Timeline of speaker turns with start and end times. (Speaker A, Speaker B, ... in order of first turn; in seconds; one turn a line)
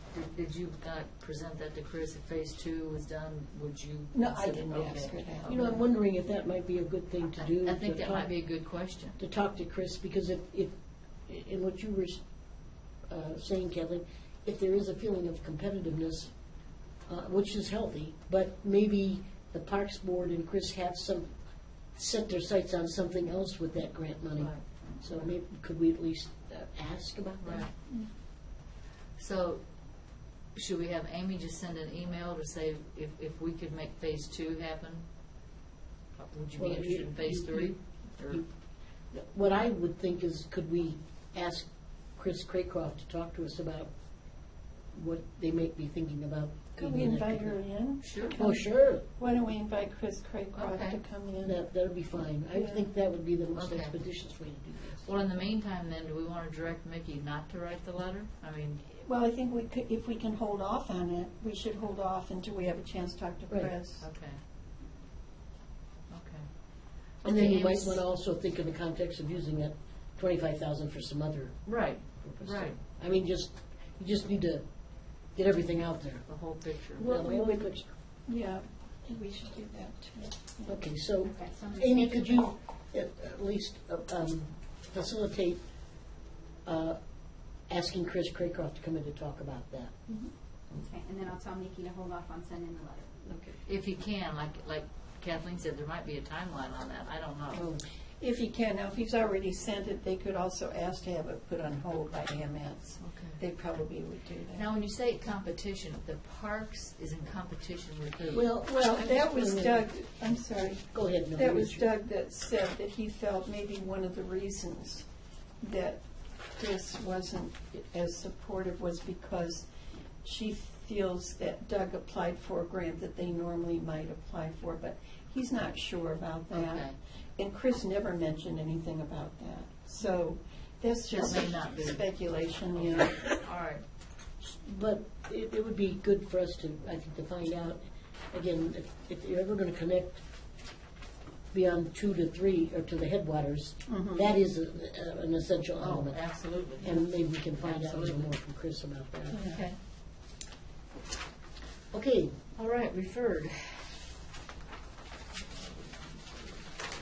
Speaker A: 0.1-5.2
Speaker B: 4.1-5.8
Speaker C: 5.5-8.4
Speaker A: 7.4-9.2
Speaker C: 9.2-10.7
Speaker C: 11.3-12.2
Speaker C: 13.1-16.3
Speaker C: 17.1-21.3
Speaker C: 21.9-27.7
Speaker A: 24.4-24.6
Speaker A: 27.4-27.7
Speaker A: 29.2-29.6
Speaker A: 30.5-35.1
Speaker A: 36.1-38.4
Speaker C: 36.5-38.5
Speaker C: 39.1-43.9
Speaker C: 44.9-47.6
Speaker B: 46.8-51.6
Speaker A: 48.0-48.4
Speaker C: 48.3-49.0
Speaker A: 50.5-51.0
Speaker C: 51.4-55.1
Speaker B: 52.5-52.8
Speaker A: 53.5-54.0
Speaker A: 54.9-58.8
Speaker B: 58.9-64.0
Speaker A: 64.0-64.4
Speaker A: 66.1-66.5
Speaker A: 67.2-68.0
Speaker C: 67.2-71.7
Speaker A: 71.6-72.8
Speaker C: 72.2-74.6
Speaker C: 75.3-76.3
Speaker A: 76.3-77.2
Speaker B: 77.0-77.7
Speaker C: 77.0-77.9
Speaker B: 78.2-80.8
Speaker C: 80.7-85.6
Speaker D: 81.2-82.4
Speaker C: 86.6-87.0
Speaker C: 87.7-90.0
Speaker D: 90.8-93.1
Speaker C: 93.2-93.6
Speaker A: 93.7-97.6
Speaker C: 97.5-97.8
Speaker B: 98.2-104.6
Speaker A: 103.0-103.4
Speaker A: 104.5-108.4
Speaker C: 108.3-109.9
Speaker B: 108.6-115.0
Speaker C: 110.9-111.9
Speaker B: 115.6-116.0
Speaker B: 116.5-119.7
Speaker B: 120.2-133.3
Speaker A: 126.5-127.0
Speaker A: 131.1-133.8
Speaker C: 134.4-140.2
Speaker C: 141.5-149.4
Speaker B: 143.9-144.3
Speaker A: 145.8-148.3
Speaker B: 149.3-149.6
Speaker A: 149.3-149.8
Speaker C: 151.9-152.3
Speaker A: 152.5-154.0
Speaker A: 155.4-156.7